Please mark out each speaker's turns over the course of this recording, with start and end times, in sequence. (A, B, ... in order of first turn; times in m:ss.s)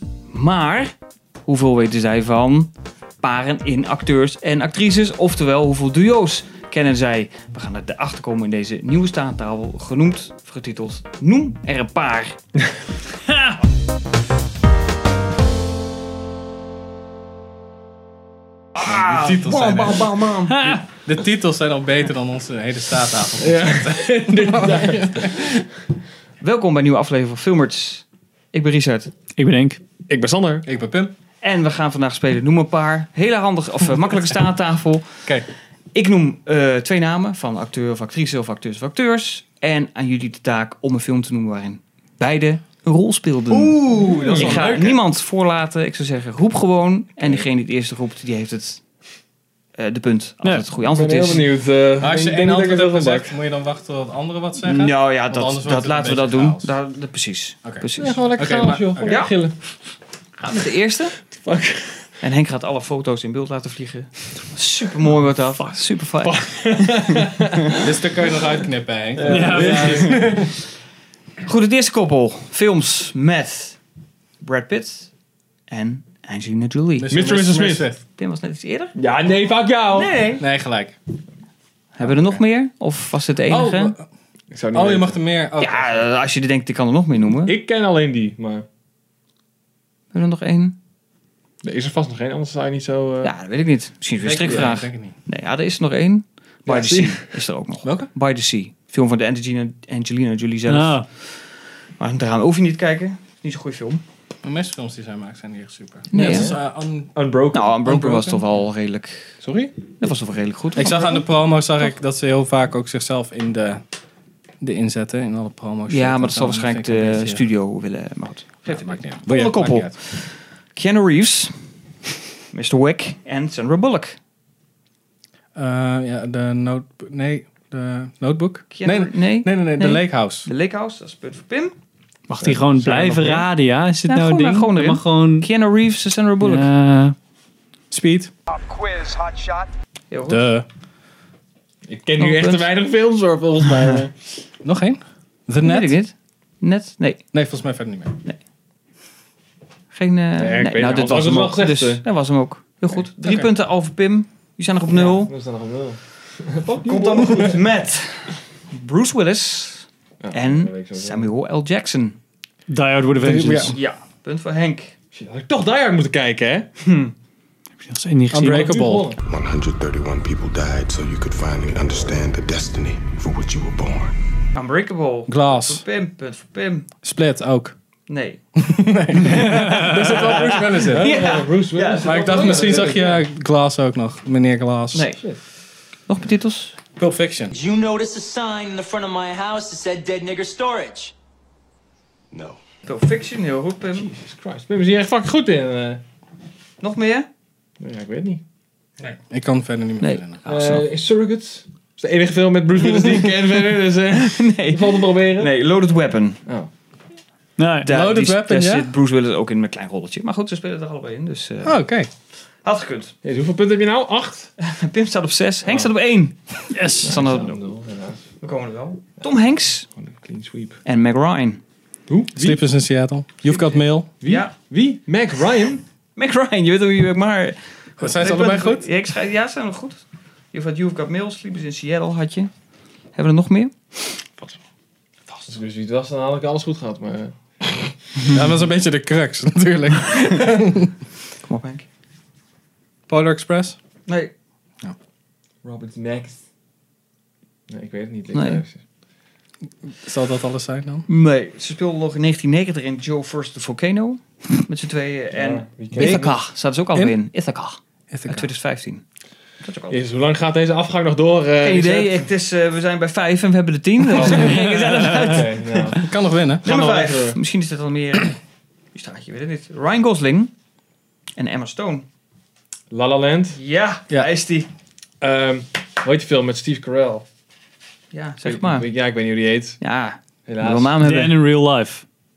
0:00.3-0:00.9 A
0:01.4-0:12.4 A
0:18.8-0:20.8 A
0:18.8-0:20.3 B
0:20.5-0:20.8 C
0:20.9-0:25.6 B
0:23.4-0:25.6 D
0:26.4-0:29.1 A
0:29.4-0:29.8 C
0:30.1-0:30.7 D
0:30.6-0:31.1 B
0:31.4-0:35.3 A
0:35.9-0:48.8 A
0:43.5-0:45.0 B
0:43.9-0:44.9 D
0:49.8-0:51.5 A
0:50.8-0:53.4 D
0:52.0-0:56.7 B
0:54.6-0:58.2 A
0:57.6-0:59.3 B
0:58.0-0:59.6 D
0:59.0-0:59.3 A
1:00.4-1:01.2 A
1:01.3-1:02.2 D
1:02.2-1:07.3 A
1:06.2-1:08.5 D
1:07.8-1:10.5 B
1:09.2-1:10.5 D
1:09.3-1:10.2 C
1:11.4-1:13.8 A
1:14.4-1:15.1 A
1:15.7-1:17.2 A
1:17.0-1:18.0 B
1:17.1-1:17.9 D
1:18.0-1:19.0 A
1:19.0-1:20.2 D
1:19.9-1:20.4 A
1:20.4-1:21.0 B
1:22.0-1:24.0 A
1:23.5-1:24.1 B
1:24.5-1:25.2 D
1:24.7-1:26.1 B
1:25.6-1:27.6 A
1:27.4-1:28.7 D
1:30.1-1:30.8 A
1:31.6-1:33.3 D
1:33.2-1:44.0 A
1:34.2-1:35.2 B
1:34.5-1:34.7 D
1:36.6-1:37.4 D
1:37.8-1:38.1 B
1:40.7-1:41.1 C
1:44.4-1:47.1 B
1:46.1-1:46.6 A
1:46.1-1:46.6 D
1:47.1-1:48.4 D
1:47.5-1:49.4 A
1:49.4-1:49.7 D
1:50.0-1:51.2 A
1:50.8-1:53.8 B
1:54.6-1:57.4 B
1:55.9-2:01.6 A
1:58.7-1:59.9 B
2:02.5-2:04.2 A
2:05.6-2:10.5 B
2:08.7-2:11.8 A
2:12.3-2:15.5 C
2:12.3-2:12.7 D
2:12.8-2:13.5 A
2:14.1-2:16.7 A
2:16.4-2:17.2 C
2:17.9-2:18.3 B
2:18.5-2:19.7 E
2:20.1-2:20.4 A
2:20.2-2:20.7 B
2:21.8-2:24.2 D
2:22.2-2:22.7 A
2:24.6-2:26.0 B
2:25.6-2:27.2 A
2:27.3-2:28.2 B
2:29.9-2:35.3 A
2:30.4-2:32.0 D
2:33.2-2:33.5 B
2:34.9-2:37.6 D
2:36.8-2:42.2 A
2:40.2-2:41.3 D
2:42.7-2:43.8 C
2:43.2-2:43.8 B
2:43.7-2:44.9 A
2:45.1-2:46.7 D
2:46.8-2:47.1 A
2:47.8-2:48.7 C
2:48.3-2:49.1 B
2:48.4-2:49.2 D
2:49.3-2:54.1 F
2:54.5-2:56.9 A
2:55.3-2:55.8 B
2:57.0-2:57.8 B
2:58.1-2:58.4 A
2:58.6-3:01.1 B
3:00.0-3:03.2 D
3:00.1-3:03.2 A
3:02.0-3:05.1 B
3:04.9-3:05.2 A
3:06.1-3:06.8 A
3:07.0-3:07.6 B
3:07.5-3:11.1 E
3:12.3-3:12.6 F
3:12.8-3:14.1 A
3:14.0-3:16.0 D
3:16.8-3:17.3 A
3:17.8-3:18.4 D
3:19.0-3:20.4 B
3:20.0-3:20.9 A
3:20.5-3:25.5 D
3:22.8-3:26.4 A
3:26.5-3:26.7 D
3:27.6-3:27.9 C
3:27.8-3:31.8 A
3:27.9-3:28.9 B
3:31.6-3:32.1 B
3:32.4-3:33.1 A
3:33.2-3:34.5 D
3:34.6-3:36.4 A
3:35.6-3:35.9 D
3:36.7-3:37.2 C
3:36.9-3:37.6 A
3:37.0-3:38.3 D
3:38.4-3:39.9 A
3:39.9-3:40.8 D
3:40.8-3:41.6 A
3:42.1-3:42.6 D
3:42.3-3:44.1 B
3:44.2-3:45.8 D
3:44.2-3:44.5 A
3:46.2-3:52.5 A
3:48.0-3:48.9 B
3:53.1-3:54.2 A
3:55.3-3:57.9 D
3:58.2-3:58.5 A
3:58.3-4:00.9 B
4:01.4-4:01.9 A
4:03.1-4:03.8 B
4:04.1-4:04.3 A
4:05.6-4:06.4 D
4:07.7-4:08.8 D
4:08.3-4:08.6 A
4:09.9-4:11.1 B
4:11.1-4:19.0 A
4:15.3-4:16.4 D
4:16.0-4:17.2 B
4:18.1-4:18.5 B
4:19.6-4:20.0 A
4:19.9-4:22.3 D
4:21.6-4:25.5 A
4:24.1-4:27.4 D
4:24.4-4:24.7 C
4:26.0-4:26.7 B
4:26.6-4:28.4 A
4:28.9-4:30.5 A
4:31.4-4:32.1 A
4:32.9-4:33.6 D
4:33.6-4:34.7 A
4:35.2-4:37.3 D
4:38.1-4:38.9 A
4:38.4-4:39.8 D
4:39.8-4:41.4 A
4:40.5-4:41.0 D
4:41.0-4:42.0 C